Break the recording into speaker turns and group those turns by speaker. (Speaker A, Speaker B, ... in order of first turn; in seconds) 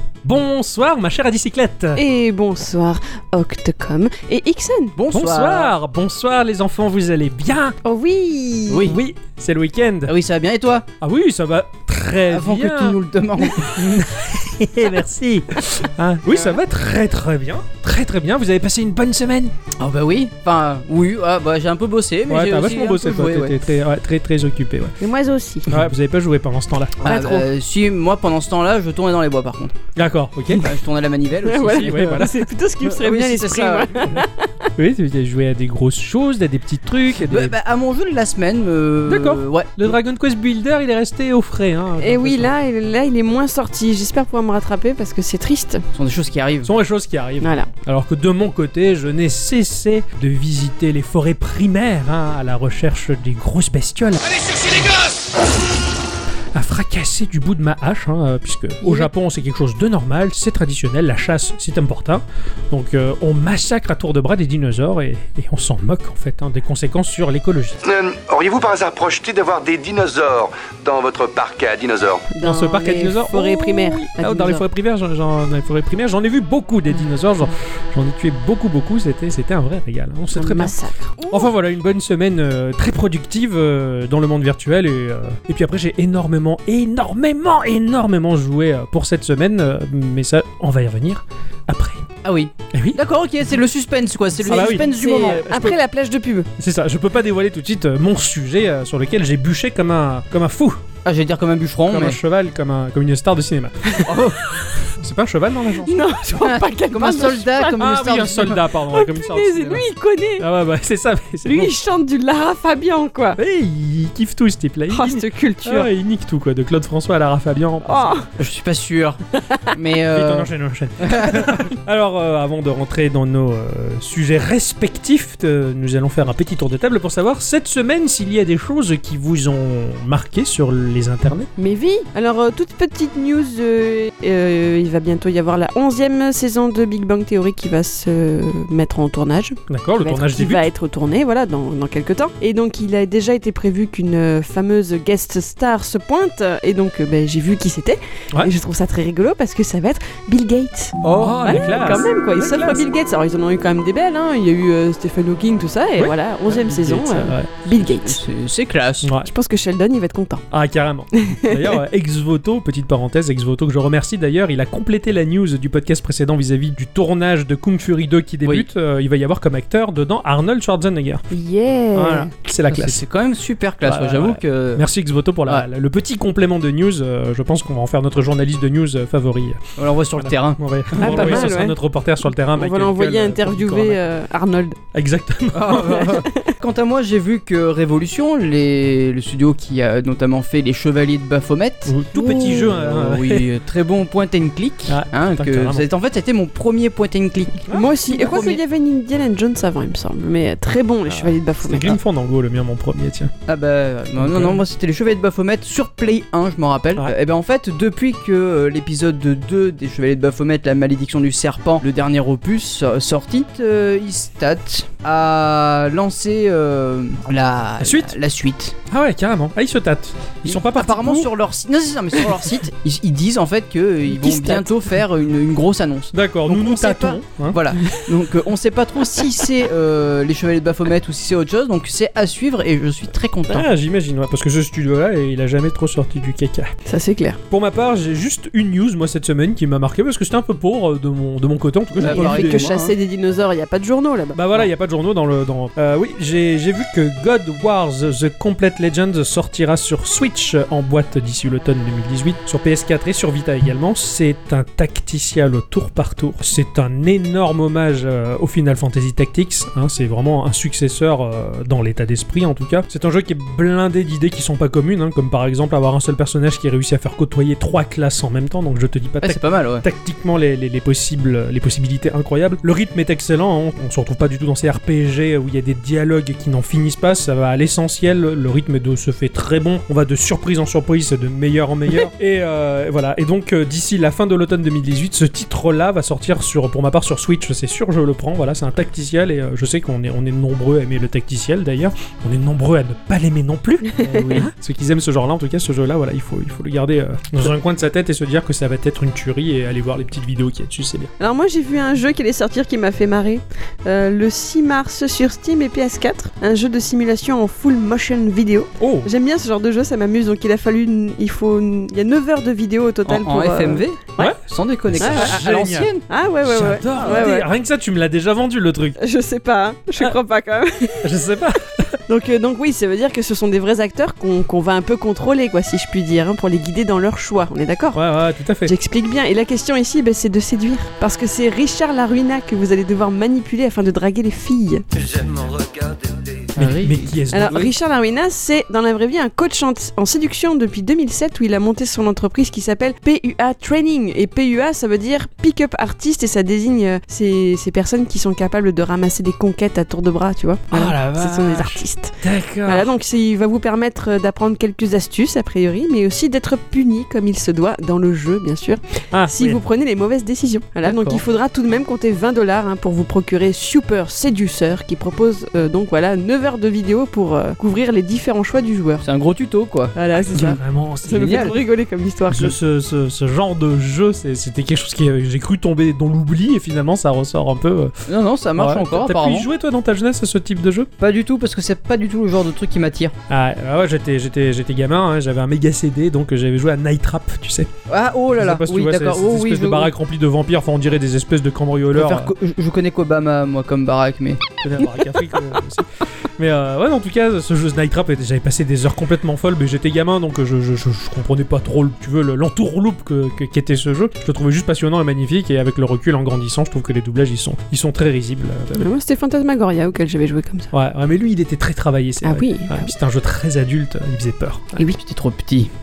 Speaker A: 0.2-2.0, 5.1-7.8, 8.8-10.1, 11.0-19.6, 22.3-24.9, 25.7-27.0, 29.9-30.7, 31.7-32.5, 34.8-37.5, 39.1-42.5, 46.6-55.1, 56.5-67.8, 72.4-80.7, 81.3-92.1, 92.7-93.0, 94.4-95.8, 96.6-100.8, 101.9-104.2, 104.8-106.1, 107.7-109.8, 110.4-111.7, 113.4-118.2, 120.1-131.5, 139.7-140.6, 151.2-152.8, 156.0-157.5, 159.0-159.3, 160.5-171.2, 171.9-173.0, 173.8-184.0, 184.9-186.2, 191.8-193.5, 194.9-195.8, 201.6-203.3, 204.2-204.6, 217.8-218.1, 218.9-221.3, 224.2-224.6, 226.1-227.6, 233.5-236.7, 237.5-242.7, 244.3-301.1, 308.8-309.1, 314.9-315.9, 316.4-319.0, 321.0-321.9, 327.9-328.7, 336.6-337.6, 350.7-352.9, 359.1-359.6, 360.8-361.2, 370.3-371.6, 372.3-378.1, 378.6-380.9, 383.3-387.7, 388.4-392.3, 394.6-408.9, 410.7-414.8
Speaker B: 1.9-4.9, 7.8-8.9, 25.0-25.7, 27.0-27.4, 31.4-34.7, 42.0-45.8, 47.4-47.7, 72.3-74.6, 80.3-81.5, 94.4-96.5, 105.8-108.0, 108.9-110.5, 111.4-113.4, 114.9-115.9, 117.8-118.3, 119.4-119.7, 131.6-158.2, 159.2-160.4, 161.2-161.7, 171.3-172.3, 181.0-181.8, 182.5-184.8, 185.9-186.5, 197.7-202.0, 224.3-224.7, 236.8-237.4, 242.0-244.4, 293.8-294.5, 301.2-314.3, 315.0-315.4, 316.1-317.5, 319.0-321.1, 322.1-328.0, 328.6-334.8, 337.3-352.1, 352.6-369.1, 369.9-372.5, 408.7-410.7, 412.2-412.9
Speaker C: 5.0-5.7, 8.7-9.0, 10.1-10.8, 12.3-14.0, 19.8-23.5, 27.0-29.7, 30.6-32.2, 32.8-34.1, 37.1-39.9, 45.9-46.7, 92.2-95.4, 101.0-102.2, 104.0-104.4, 106.4-108.6, 118.4-119.2, 119.7-121.6, 151.0-151.8, 157.8-159.1, 172.7-174.8, 179.8-181.5, 185.5-198.6, 203.5-218.7, 220.4-233.7, 242.0-242.9, 269.2-269.8, 313.1-316.0, 336.6-337.7, 369.0-369.9, 371.2-371.5, 378.1-379.5, 381.0-383.1, 387.9-389.9, 391.9-394.4, 414.8-415.7
Speaker D: 67.8-72.3, 334.9-336.4